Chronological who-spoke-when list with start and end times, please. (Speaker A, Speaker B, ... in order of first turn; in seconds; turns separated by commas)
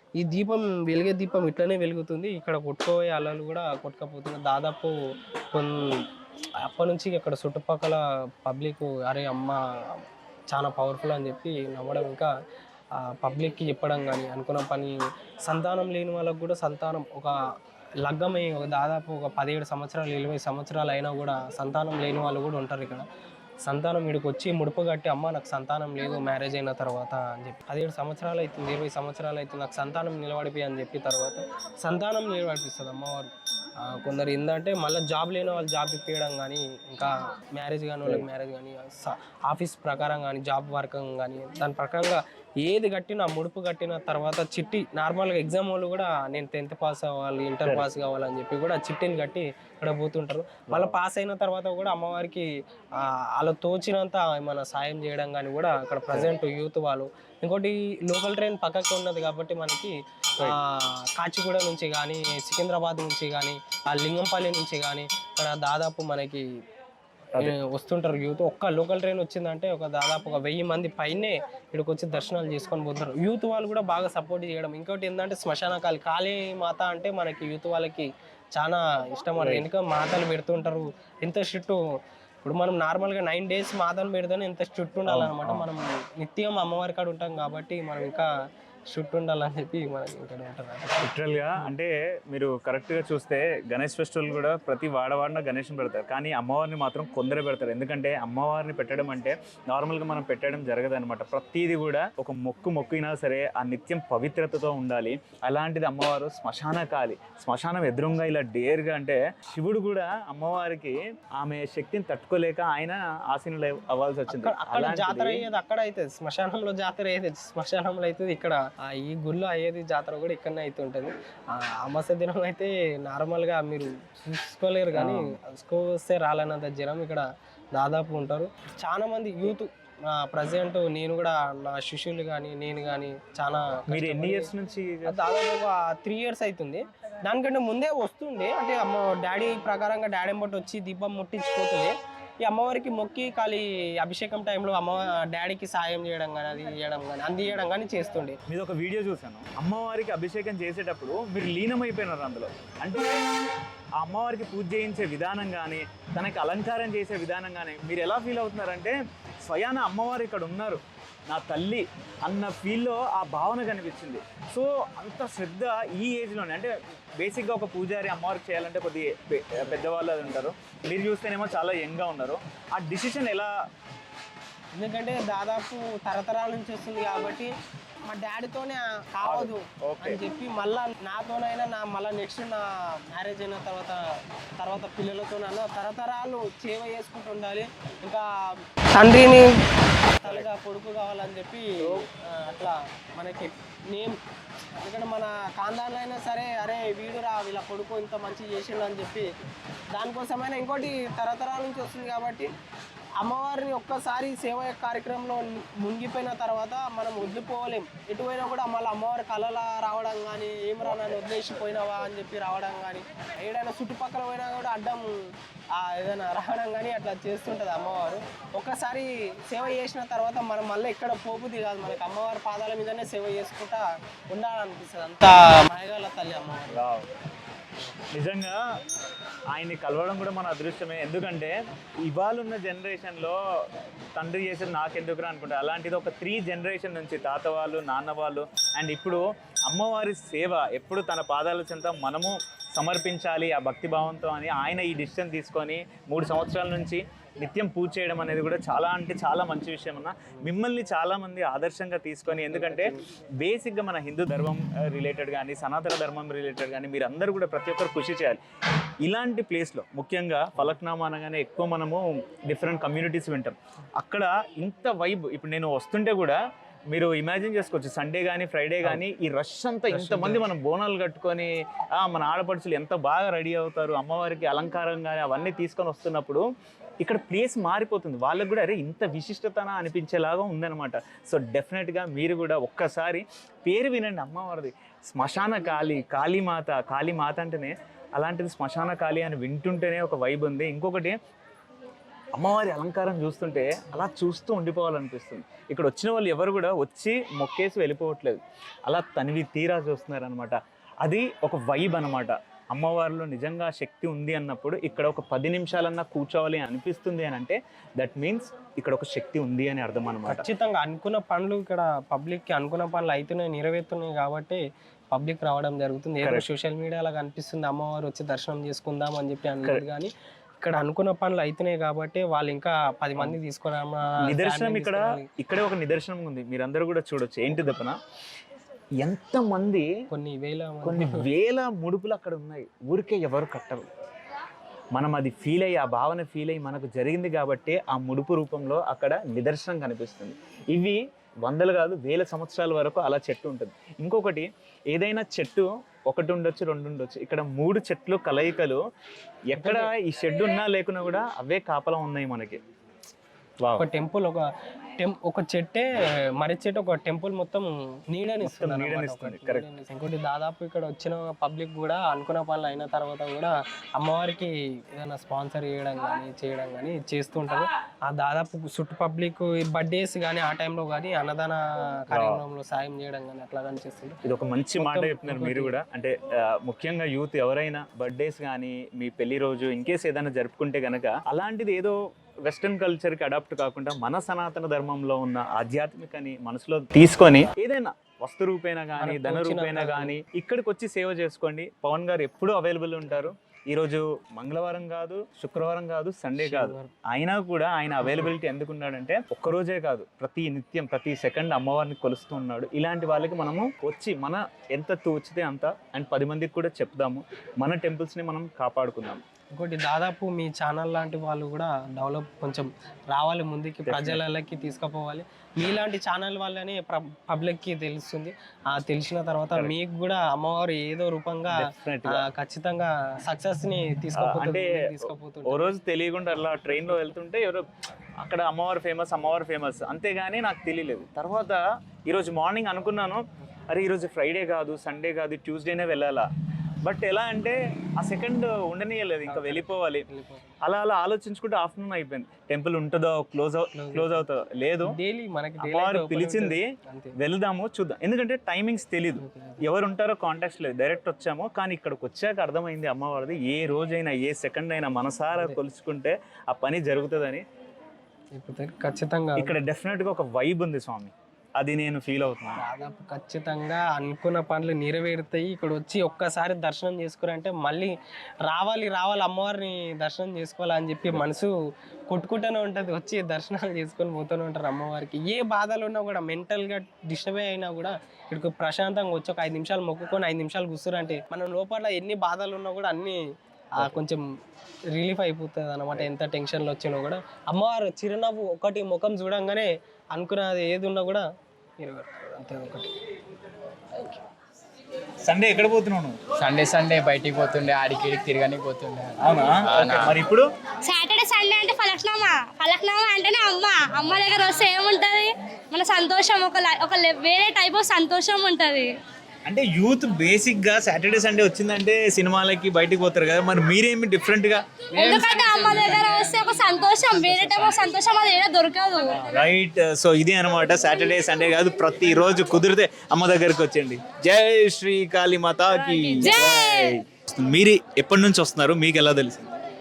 Speaker A: 0.2-4.9, Speaker A: 5.5-6.0, Speaker A: 6.6-9.6, Speaker A: 10.5-12.3, Speaker A: 13.0-17.3, Speaker A: 18.0-23.0, Speaker A: 23.6-33.3, Speaker A: 33.8-52.5, Speaker B: 50.7-50.9, Speaker A: 53.0-66.5, Speaker A: 67.4-81.8, Speaker B: 79.4-79.6, Speaker A: 82.4-88.3, Speaker B: 85.1-85.7, Speaker A: 88.9-91.1, Speaker B: 91.0-115.4, Speaker A: 114.3-127.2, Speaker B: 124.9-125.3, Speaker A: 127.8-134.5, Speaker B: 133.9-135.2, Speaker A: 135.1-148.4, Speaker B: 148.5-153.1, Speaker B: 154.0-173.5, Speaker A: 174.8-177.5, Speaker A: 178.1-184.0, Speaker B: 179.2-180.2, Speaker A: 184.6-188.3, Speaker A: 188.9-189.5, Speaker B: 190.2-190.5, Speaker A: 190.2-194.2, Speaker A: 194.8-199.3, Speaker A: 199.9-202.5, Speaker A: 203.2-215.1, Speaker A: 215.8-226.8, Speaker B: 226.7-227.1, Speaker B: 228.1-228.6, Speaker B: 229.5-233.4, Speaker B: 234.2-258.4, Speaker A: 252.3-253.0, Speaker B: 259.0-266.4, Speaker B: 266.9-276.4, Speaker A: 269.9-270.4, Speaker B: 277.0-291.2, Speaker B: 292.3-310.4, Speaker A: 310.3-314.6, Speaker A: 315.1-325.3, Speaker B: 324.2-328.0, Speaker B: 329.0-329.9, Speaker A: 330.1-331.2, Speaker B: 330.8-333.9, Speaker B: 334.9-348.8, Speaker B: 349.5-352.6, Speaker A: 349.6-349.9, Speaker B: 353.6-353.9, Speaker A: 353.8-354.4, Speaker A: 355.0-374.2, Speaker B: 358.4-359.6, Speaker B: 372.1-372.4, Speaker B: 374.2-409.2, Speaker A: 374.8-375.8, Speaker A: 389.0-390.1, Speaker A: 396.4-396.9, Speaker A: 409.5-425.8, Speaker B: 413.9-414.2, Speaker B: 421.5-422.2, Speaker B: 424.1-424.9, Speaker B: 425.4-427.6, Speaker A: 426.6-427.1, Speaker B: 428.2-436.3, Speaker B: 436.8-440.0, Speaker A: 439.3-440.5, Speaker B: 440.6-444.9, Speaker A: 443.7-444.2, Speaker A: 444.9-447.1, Speaker B: 445.6-446.6, Speaker B: 447.2-457.4, Speaker A: 449.2-449.6, Speaker A: 458.4-459.5, Speaker B: 459.4-462.6, Speaker A: 462.6-467.9, Speaker A: 468.5-471.5, Speaker A: 472.1-483.2, Speaker A: 483.8-484.2, Speaker A: 484.9-491.2, Speaker A: 491.8-492.9, Speaker B: 495.2-496.2, Speaker C: 496.4-500.1, Speaker B: 499.2-500.5, Speaker D: 500.9-508.9, Speaker B: 509.4-514.8, Speaker D: 514.9-519.1, Speaker C: 515.0-516.1, Speaker C: 517.4-517.6, Speaker B: 519.2-529.4, Speaker D: 526.2-526.9